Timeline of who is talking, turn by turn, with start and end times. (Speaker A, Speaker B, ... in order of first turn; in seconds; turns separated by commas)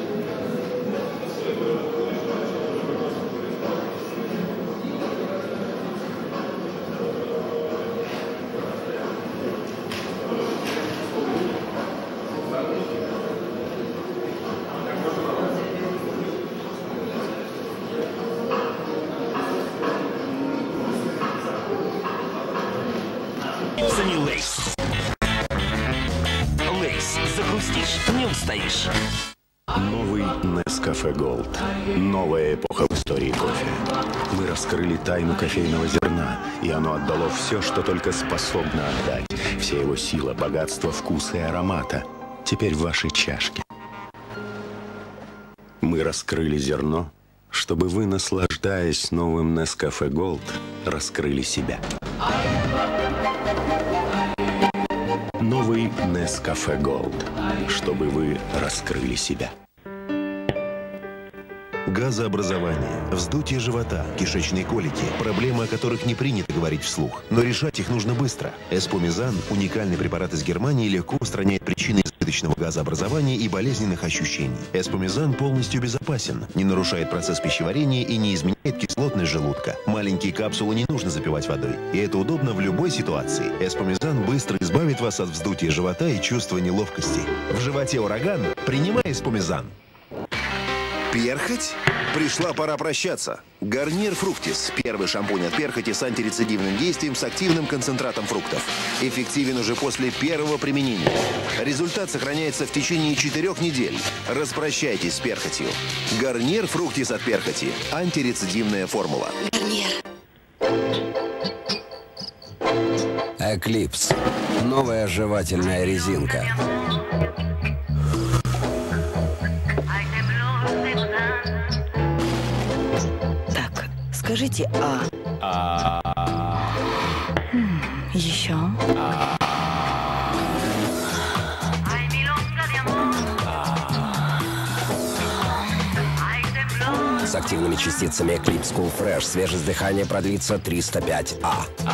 Speaker A: 23.8-24.6, Speaker A: 26.7-28.9, Speaker B: 29.7-43.6, Speaker B: 45.8-51.8, Speaker B: 55.4-59.5, Speaker C: 61.9-89.7, Speaker C: 91.1-109.5, Speaker D: 113.4-116.6, Speaker E: 123.5-125.1, Speaker E: 127.5-128.8, Speaker D: 137.2-141.7